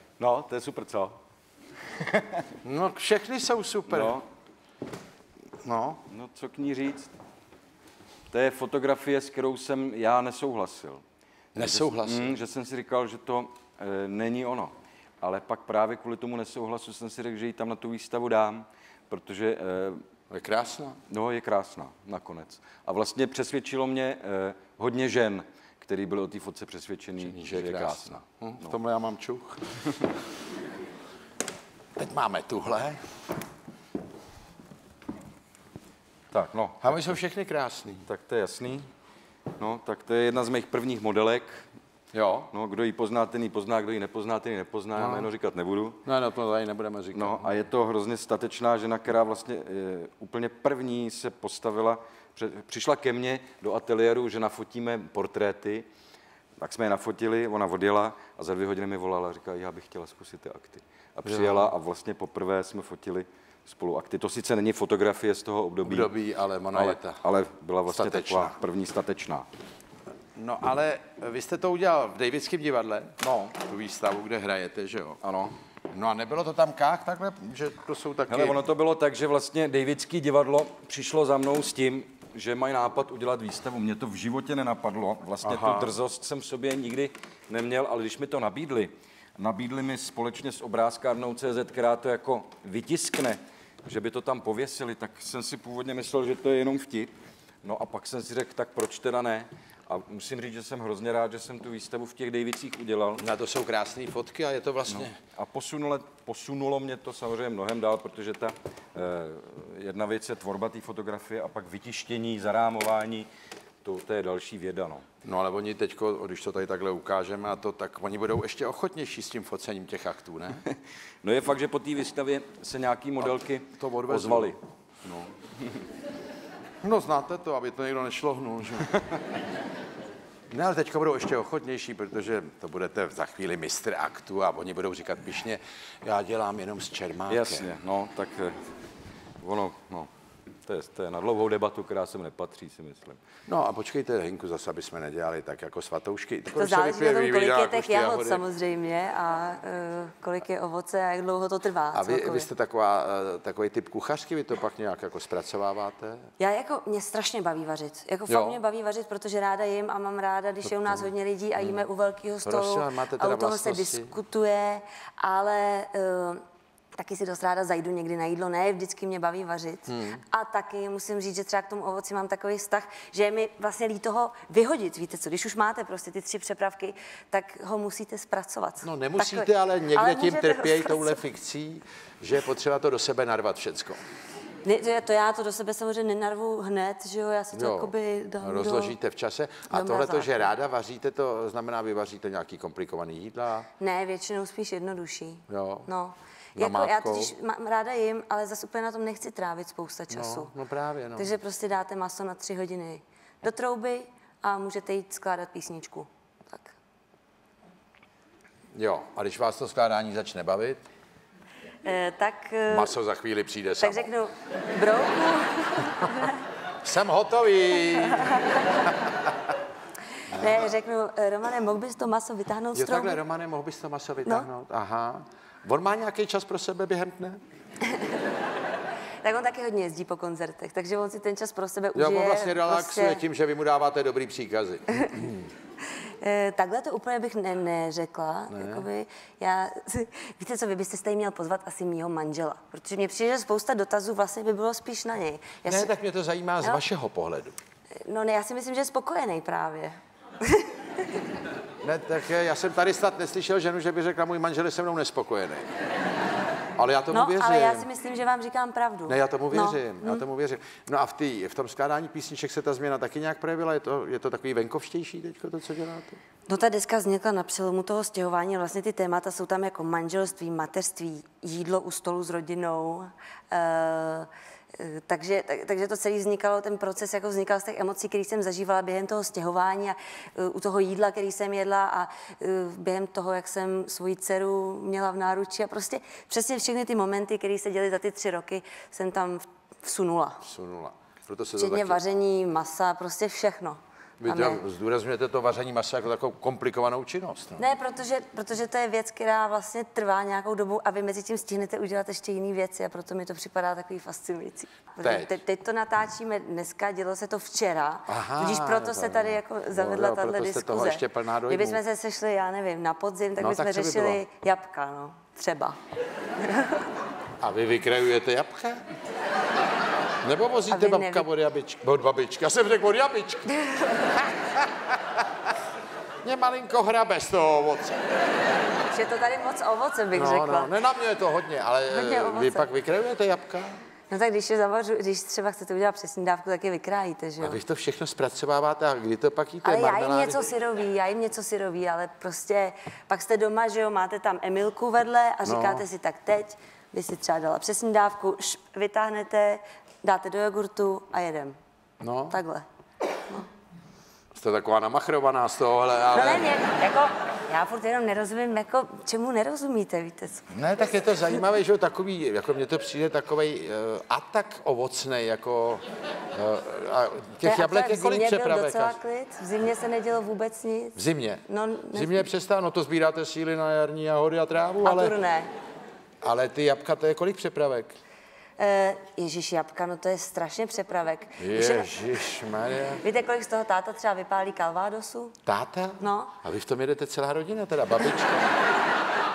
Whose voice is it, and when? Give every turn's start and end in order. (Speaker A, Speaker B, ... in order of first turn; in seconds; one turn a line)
Speaker A: 0.2-1.2
Speaker A: 2.1-2.5
Speaker B: 2.6-4.2
Speaker A: 3.9-4.2
Speaker B: 5.6-6.0
Speaker A: 6.1-7.1
Speaker A: 8.3-11.0
Speaker B: 11.6-12.4
Speaker A: 11.6-20.0
Speaker B: 20.3-21.0
Speaker A: 21.1-28.7
Speaker B: 27.2-29.9
Speaker B: 32.0-33.0
Speaker A: 36.3-37.2
Speaker B: 36.8-38.1
Speaker A: 38.1-38.9
Speaker A: 39.6-41.7
Speaker B: 42.1-42.5
Speaker A: 42.5-46.0
Speaker B: 45.0-45.3
Speaker B: 46.0-47.5
Speaker A: 47.1-55.9
Speaker A: 56.6-66.1
Speaker B: 61.2-61.7
Speaker B: 65.8-67.2
Speaker A: 66.7-69.5
Speaker B: 67.9-68.6
Speaker B: 70.3-75.2
Speaker A: 73.2-73.6
Speaker A: 75.2-75.6
Speaker B: 75.9-78.6
Speaker A: 78.3-97.1
Speaker B: 85.4-85.9
Speaker A: 97.6-103.3
Speaker B: 103.2-105.2
Speaker A: 104.9-113.3
Speaker A: 113.8-115.0
Speaker B: 115.2-120.6
Speaker A: 120.7-125.8
Speaker B: 123.2-124.6
Speaker B: 126.8-128.9
Speaker B: 130.5-137.7
Speaker A: 137.3-138.6
Speaker A: 139.4-140.1
Speaker A: 140.7-143.2
Speaker B: 143.5-148.4
Speaker C: 146.5-152.5
Speaker B: 151.9-156.2
Speaker C: 156.4-166.4
Speaker B: 158.3-158.6
Speaker B: 160.7-161.1
Speaker B: 162.4-164.2
Speaker C: 167.0-181.2
Speaker B: 169.9-170.2
Speaker B: 178.8-184.0
Speaker C: 184.6-188.9
Speaker B: 187.5-193.7
Speaker C: 189.7-190.5
Speaker C: 193.8-200.5
Speaker B: 195.5-195.9
Speaker B: 196.6-197.3
Speaker B: 200.1-201.3
Speaker C: 201.2-206.8
Speaker B: 208.7-210.8
Speaker C: 211.8-212.9
Speaker B: 212.7-214.1
Speaker C: 213.8-216.4
Speaker B: 216.8-219.3
Speaker C: 218.2-218.6
Speaker C: 220.3-223.2
Speaker B: 220.3-220.6
Speaker B: 222.7-227.4
Speaker C: 227.8-228.2
Speaker C: 229.2-233.2
Speaker B: 231.9-235.2
Speaker C: 236.0-245.9
Speaker B: 238.5-238.9
Speaker B: 245.7-247.6
Speaker C: 248.0-251.0
Speaker B: 251.8-255.7
Speaker B: 256.8-257.9
Speaker C: 257.1-260.2
Speaker B: 259.1-266.2
Speaker C: 266.5-290.4
Speaker B: 290.4-292.0
Speaker C: 291.6-294.6
Speaker B: 294.2-297.6
Speaker C: 297.6-315.8
Speaker B: 305.0-305.4
Speaker B: 308.1-311.8
Speaker B: 313.4-314.2
Speaker C: 316.4-316.9
Speaker B: 317.4-318.8
Speaker B: 320.2-323.6
Speaker C: 320.7-321.3
Speaker C: 323.6-324.1
Speaker B: 324.2-325.2
Speaker B: 326.2-328.0
Speaker C: 328.9-330.7
Speaker B: 330.1-333.7
Speaker C: 331.9-332.7
Speaker C: 334.1-337.6
Speaker B: 337.4-340.5
Speaker C: 339.6-351.6
Speaker B: 345.4-345.9
Speaker B: 352.0-352.4
Speaker C: 352.3-352.6
Speaker B: 354.3-356.5
Speaker C: 356.1-360.5
Speaker B: 360.5-365.8
Speaker B: 366.3-369.0
Speaker C: 367.4-372.3
Speaker B: 371.0-375.2
Speaker C: 374.8-375.5
Speaker B: 376.2-377.9
Speaker C: 378.6-381.9
Speaker B: 381.4-383.0
Speaker C: 383.0-385.4
Speaker B: 385.5-388.5
Speaker C: 386.0-386.3